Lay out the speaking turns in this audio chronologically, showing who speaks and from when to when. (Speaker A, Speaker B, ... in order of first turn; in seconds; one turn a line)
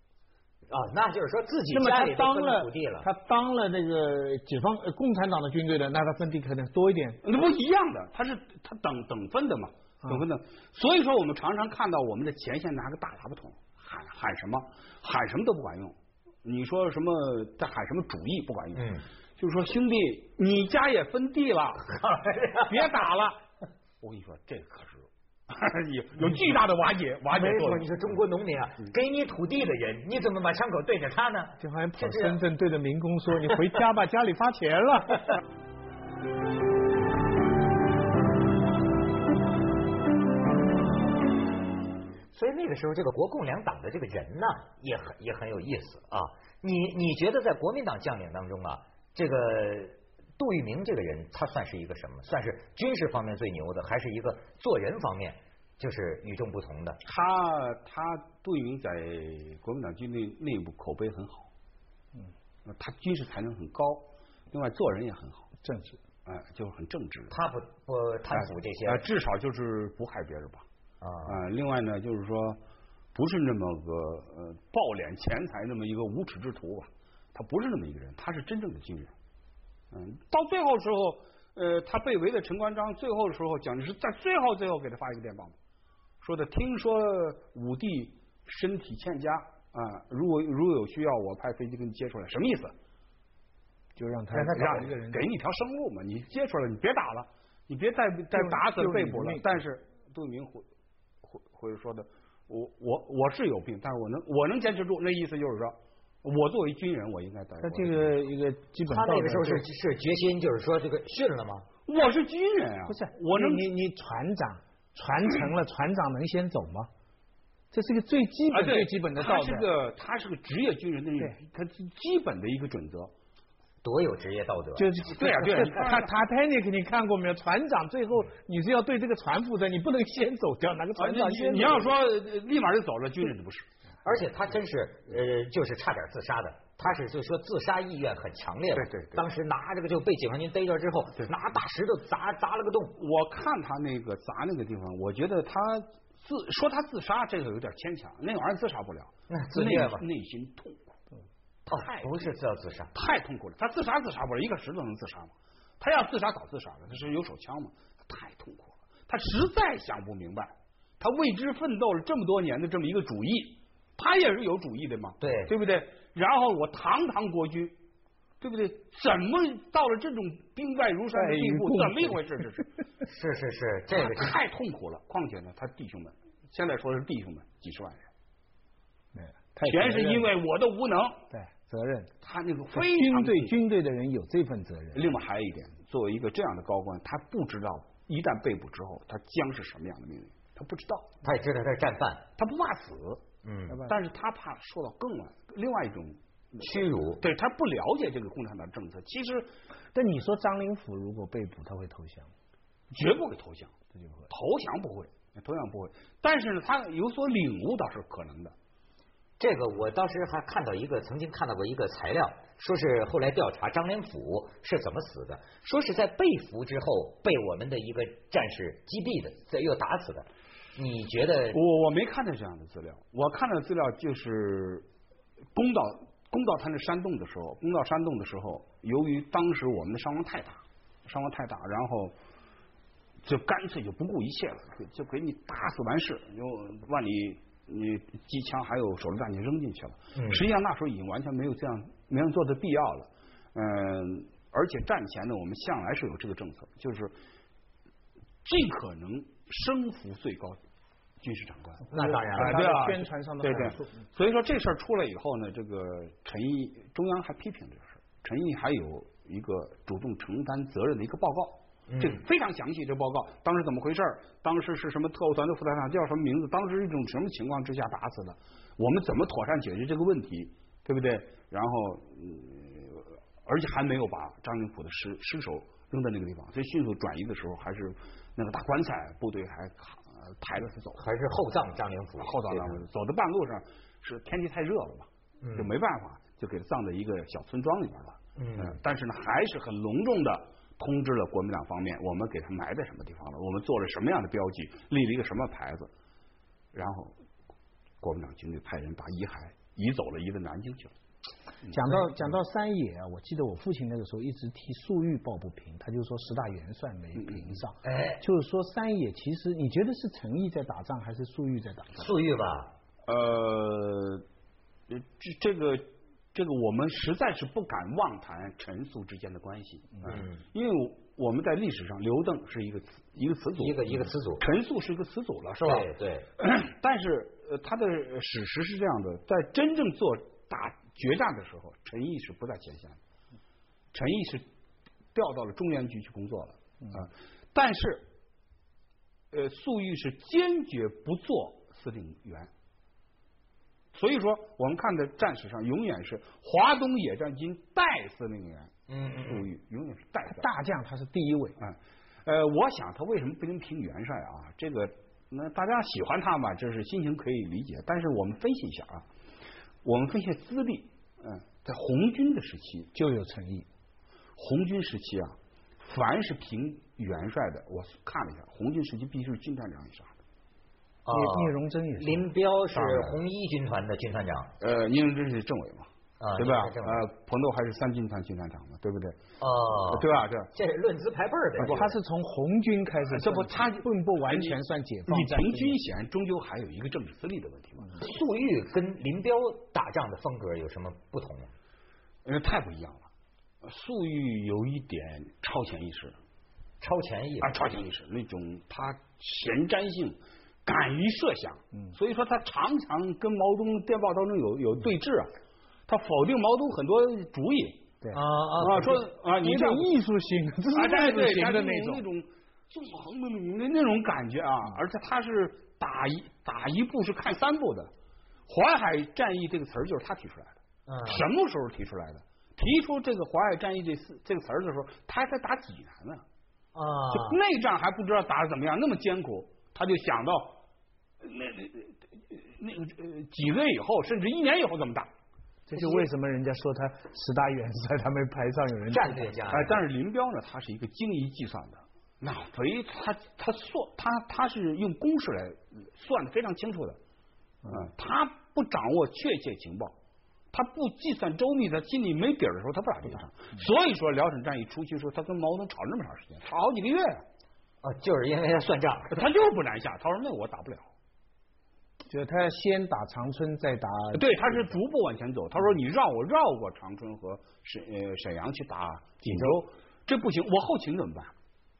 Speaker A: 0.7-3.1
Speaker B: 1.7-7.2
Speaker C: 7.2-22.0
Speaker A: 18.8-19.0
Speaker A: 21.9-22.9
Speaker C: 22.6-23.4
Speaker C: 24.0-27.9
Speaker A: 27.3-32.4
Speaker B: 31.6-35.4
Speaker A: 42.3-57.0
Speaker C: 57.0-61.5
Speaker C: 62.6-65.5
Speaker B: 65.6-66.0
Speaker C: 66.2-67.3
Speaker A: 67.3-69.0
Speaker C: 68.3-70.7
Speaker A: 71.0-71.4
Speaker C: 71.2-72.6
Speaker C: 73.1-79.1
Speaker C: 79.9-85.5
Speaker C: 86.2-92.7
Speaker B: 94.0-95.2
Speaker A: 94.3-94.8
Speaker C: 94.4-100.7
Speaker B: 98.3-99.6
Speaker C: 101.2-108.1
Speaker B: 107.6-109.7
Speaker A: 108.9-111.7
Speaker C: 111.9-113.7
Speaker B: 112.9-116.9
Speaker B: 117.7-119.7
Speaker C: 118.5-123.1
Speaker A: 123.8-125.2
Speaker B: 124.8-131.9
Speaker C: 125.1-126.1
Speaker C: 131.0-133.7
Speaker A: 134.0-143.0
Speaker C: 138.7-139.2
Speaker C: 142.9-151.0
Speaker A: 149.3-150.0
Speaker C: 151.7-152.3
Speaker A: 151.7-152.9
Speaker C: 152.9-167.8
Speaker A: 165.2-165.5
Speaker C: 168.4-172.7
Speaker B: 171.2-172.2
Speaker A: 173.0-174.3
Speaker C: 173.9-178.1
Speaker B: 179.1-180.3
Speaker C: 179.6-181.2
Speaker B: 181.3-182.1
Speaker C: 182.2-183.6
Speaker B: 182.7-185.1
Speaker C: 184.9-191.2
Speaker A: 191.2-192.3
Speaker C: 192.4-193.2
Speaker A: 193.4-193.9
Speaker C: 193.8-199.5
Speaker A: 196.6-197.2
Speaker B: 199.9-202.3
Speaker C: 202.9-203.8
Speaker B: 203.9-204.3
Speaker C: 204.3-208.5
Speaker A: 209.4-221.6
Speaker C: 221.5-224.8
Speaker C: 225.5-232.1
Speaker C: 233.2-247.2
Speaker A: 240.2-240.4
Speaker C: 248.4-250.6
Speaker C: 251.2-281.0
Speaker B: 251.9-254.0
Speaker A: 251.9-252.6
Speaker A: 261.9-262.2
Speaker A: 281.0-282.8
Speaker C: 282.2-295.9
Speaker A: 285.4-285.7
Speaker A: 288.4-288.8
Speaker C: 296.7-297.1
Speaker C: 298.0-300.9
Speaker B: 301.7-312.1
Speaker C: 307.2-307.5
Speaker A: 307.8-308.2
Speaker A: 311.9-312.7
Speaker C: 313.1-314.2
Speaker C: 314.9-333.0
Speaker A: 320.0-320.4
Speaker A: 323.6-324.4
Speaker A: 325.6-326.3
Speaker C: 333.9-334.4
Speaker C: 335.1-338.1
Speaker C: 339.3-342.5
Speaker C: 343.9-348.7
Speaker A: 348.9-349.5
Speaker C: 349.2-350.5
Speaker B: 350.3-351.6
Speaker C: 351.6-359.1
Speaker C: 359.8-362.9
Speaker B: 362.9-363.7
Speaker C: 364.4-370.1
Speaker A: 371.1-374.5
Speaker B: 371.1-372.3
Speaker C: 372.7-373.2
Speaker C: 374.6-379.2
Speaker A: 376.2-377.0
Speaker A: 379.4-382.0
Speaker C: 379.9-380.5
Speaker C: 381.6-381.9
Speaker B: 381.6-385.8
Speaker C: 383.1-387.9
Speaker A: 388.0-391.5
Speaker C: 392.2-393.1
Speaker C: 393.6-396.2
Speaker A: 396.8-397.5
Speaker C: 397.4-405.3
Speaker C: 405.9-407.8
Speaker A: 408.1-409.0
Speaker C: 408.6-409.9
Speaker B: 409.4-412.0
Speaker C: 410.7-417.9
Speaker C: 418.5-426.2
Speaker A: 420.9-421.2
Speaker A: 426.7-427.4
Speaker C: 427.1-430.6
Speaker C: 431.2-435.1
Speaker B: 435.7-439.4
Speaker A: 438.9-439.7
Speaker C: 439.5-447.0
Speaker C: 447.7-449.9
Speaker C: 450.5-457.2
Speaker A: 457.8-459.1
Speaker C: 459.1-460.9
Speaker B: 462.1-464.6
Speaker C: 464.1-471.3